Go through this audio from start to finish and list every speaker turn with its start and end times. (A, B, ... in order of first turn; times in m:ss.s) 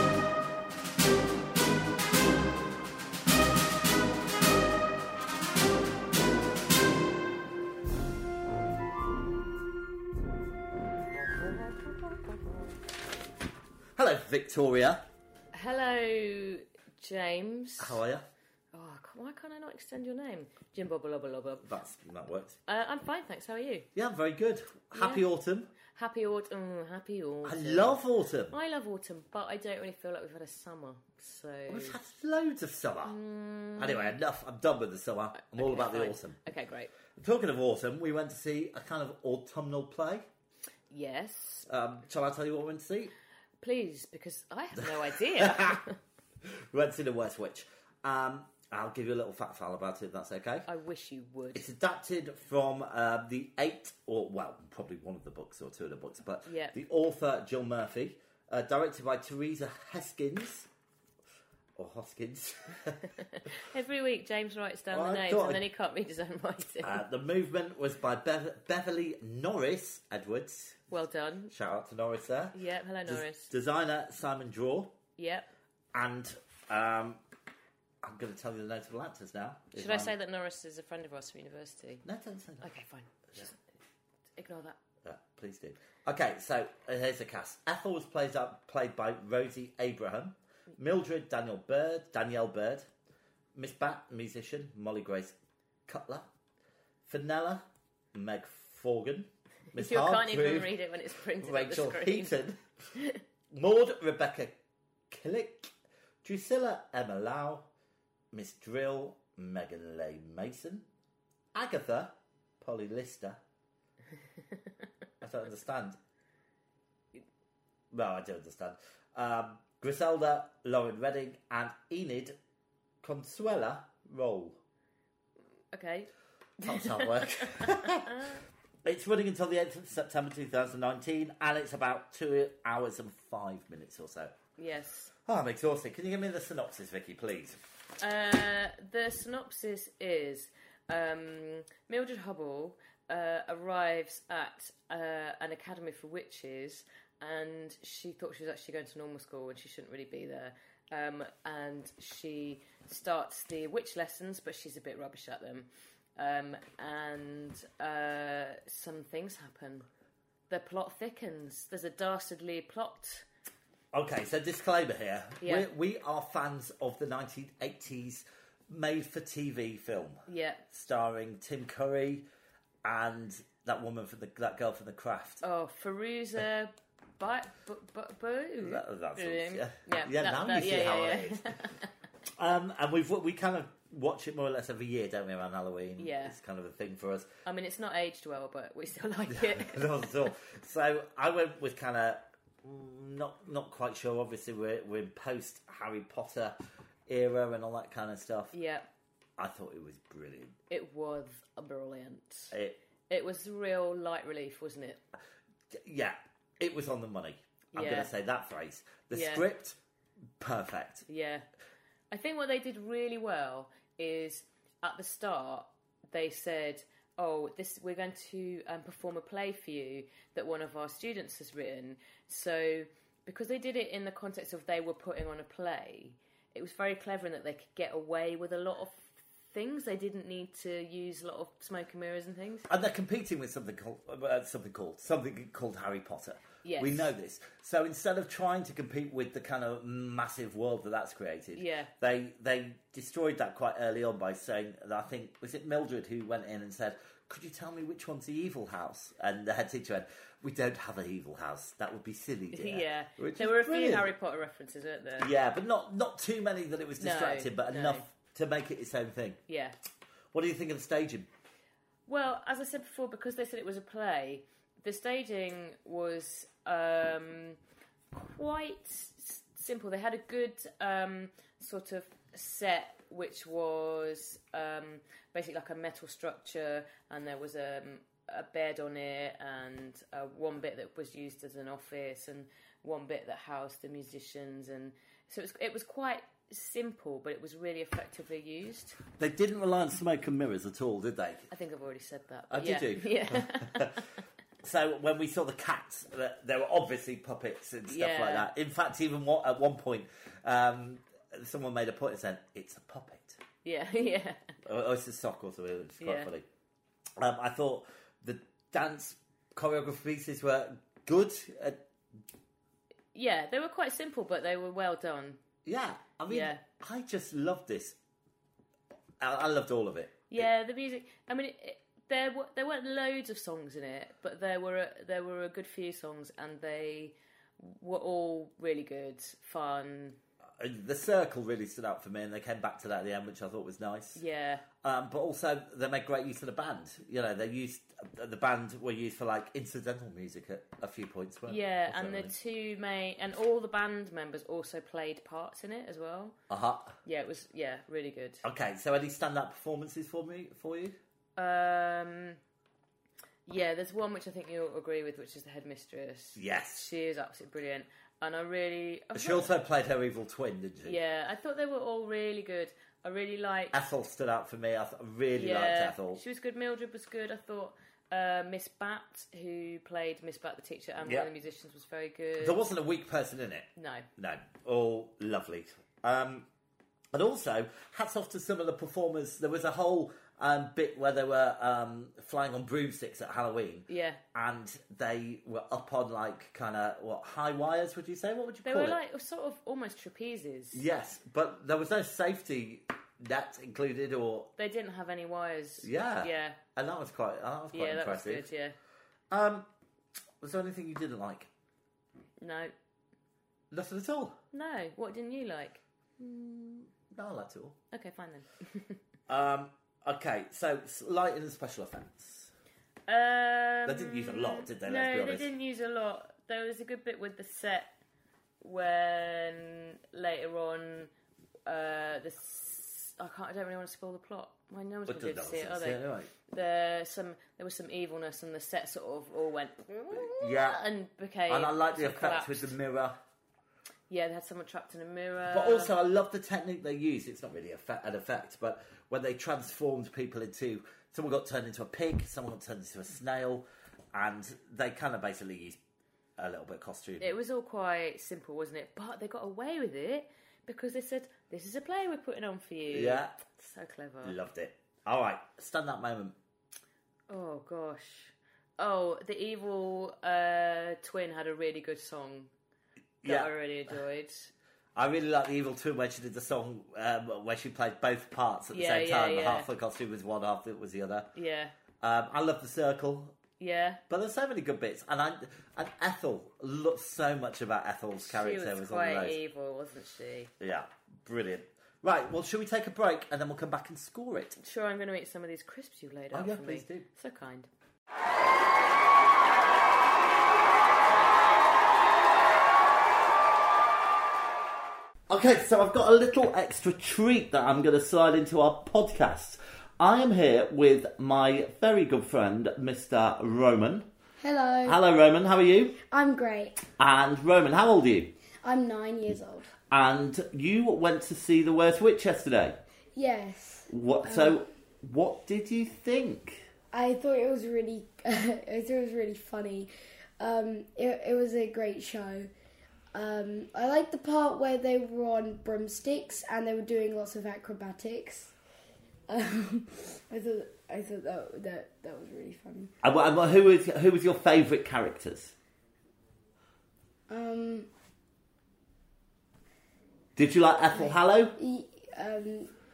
0:11.3-0:12.6 A
0:14.0-0:15.0 B
0:15.5-0:18.0 A
0:17.8-0:18.2 B
0:18.7-0:21.7 A
0:21.6-0:22.6 B
0:22.7-0:23.9 A
0:23.9-0:25.7 B
0:24.9-0:25.2 A
0:25.9-0:32.0 A
0:27.4-0:28.6 B
0:31.7-0:33.2 B
0:33.0-0:34.2 A
0:33.8-0:36.4 B
0:35.3-0:36.9 A
0:37.2-0:40.2 B
0:40.9-0:41.7 A
0:41.7-0:43.1 B
0:43.6-0:46.0 A
0:44.8-0:45.8 B
0:46.4-0:50.7 B
0:50.6-0:51.7 A
0:51.5-1:00.7 B
0:56.4-0:56.8 A
1:01.8-1:03.0 B
1:03.2-1:07.0 A
1:04.9-1:05.6 B
1:06.8-1:10.8 B
1:10.9-1:11.5 A
1:11.5-1:14.9 B
1:12.5-1:13.5 A
1:15.2-1:15.5 A
1:15.9-1:17.2 B
1:18.0-1:20.1 B
1:19.7-1:22.0 A
1:22.0-1:22.7 B
1:22.6-1:23.5 A
1:24.4-1:24.8 A
1:25.0-1:32.8 B
1:33.6-1:35.4 B
1:35.9-1:36.3 B
1:37.0-1:37.6 B
1:38.1-1:40.7 B
1:39.8-1:42.4 A
1:41.4-1:42.6 B
1:42.9-1:43.2 A
1:43.5-1:44.6 B
1:45.1-1:45.7 B
1:46.2-1:47.7 B
1:48.3-1:50.8 B
1:51.5-1:53.4 B
1:55.2-1:56.0 B
1:57.9-2:02.3 B
2:03.0-2:04.6 B
2:05.7-2:08.4 A
2:06.6-2:08.2 B
2:08.8-2:14.3 B
2:14.6-2:15.1 A
2:15.2-2:17.6 B
2:18.0-2:39.9 A
2:40.5-2:43.2 A
2:43.9-2:52.2 B
2:45.4-2:45.7 A
2:50.3-2:50.6 A
2:52.8-2:55.4 B
2:55.4-3:01.9 A
2:58.6-3:01.5 B
3:02.4-3:07.3 B
3:06.0-3:06.4 A
3:07.4-3:10.3 A
3:09.3-3:16.6 B
3:17.1-3:18.5 B
3:18.5-3:18.9 A
3:19.4-3:20.5 B
3:20.7-3:22.5 A
3:22.5-3:22.8 B
3:23.1-3:25.0 A
3:25.7-3:29.8 B
3:27.7-3:28.1 A
3:29.1-3:29.4 A
3:30.4-3:31.0 B
3:31.1-3:31.4 A
3:32.1-3:52.7 A
3:52.7-4:14.1 B
3:56.6-3:57.1 A
4:01.5-4:01.9 A
4:12.5-4:15.3 A
4:15.2-4:19.4 B
4:17.0-4:18.1 A
4:19.5-4:19.8 A
4:20.3-4:21.3 B
4:22.1-4:27.6 A
4:28.1-4:49.0 A
4:49.2-4:51.5 B
4:51.5-4:54.2 A
4:52.5-4:54.0 B
4:54.6-5:03.4 B
4:57.9-4:58.5 A
5:03.6-5:04.4 A
5:04.6-5:06.4 B
5:06.0-5:06.3 A
5:07.2-5:11.8 B
5:13.1-5:15.4 A
5:15.6-5:18.0 B
5:16.3-5:16.6 A
5:19.2-5:20.5 B
5:20.3-5:30.2 A
5:30.6-5:34.2 B
5:34.1-5:34.6 A
5:34.8-5:42.3 B
5:41.5-5:46.3 A
5:46.5-5:47.0 B
5:47.0-5:48.4 A
5:48.4-5:51.0 B
5:51.4-5:52.4 A
5:53.5-5:59.5 A
5:56.4-5:56.9 B
5:59.1-6:01.0 B
6:00.8-6:03.7 A
6:03.7-6:06.2 B
6:05.3-6:12.6 A
6:11.0-6:11.3 B
6:12.4-6:16.4 B
6:13.8-6:14.1 A
6:17.1-6:29.0 B
6:23.9-6:24.2 A
6:28.6-6:30.8 A
6:30.7-6:34.5 B
6:34.6-6:36.6 A
6:35.8-6:38.5 B
6:37.7-6:38.8 A
6:39.3-6:39.7 B
6:40.4-6:41.5 B
6:42.4-6:42.7 A
6:43.7-6:44.4 B
6:44.5-6:46.8 A
6:47.1-6:47.7 B
6:47.9-6:49.0 A
6:49.3-6:52.5 B
6:53.1-6:57.9 A
6:53.8-6:55.5 B
6:58.6-7:01.1 A
7:01.6-7:12.8 A
7:05.1-7:06.3 B
7:10.1-7:10.8 B
7:11.5-7:13.2 B
7:14.1-7:15.9 A
7:15.4-7:25.8 B
7:26.4-7:27.4 B
7:27.2-7:34.4 A
7:32.9-7:33.3 B
7:34.2-7:36.3 B
7:37.3-7:42.5 A
7:43.2-7:43.5 B
7:43.2-7:44.5 A
7:45.0-7:51.3 B
7:48.7-7:49.7 A
7:51.3-7:51.7 A
7:52.0-7:53.4 B
7:53.6-7:54.0 A
7:54.1-7:59.4 B
7:58.2-8:00.5 A
8:00.6-8:04.6 B
8:04.6-8:07.7 A
8:06.3-8:07.0 B
8:15.3-8:24.0 B
8:24.4-8:25.0 C
8:24.8-8:26.0 B
8:26.1-8:26.8 C
8:27.0-8:28.3 B
8:28.6-8:29.7 C
8:29.9-8:32.8 B
8:33.1-8:34.6 C
8:33.9-8:36.6 B
8:36.9-8:42.5 C
8:43.1-8:48.5 C
8:49.3-8:52.9 C
8:53.0-8:55.5 B
8:57.3-8:57.9 C
9:00.4-9:01.5 B
9:00.9-9:02.7 C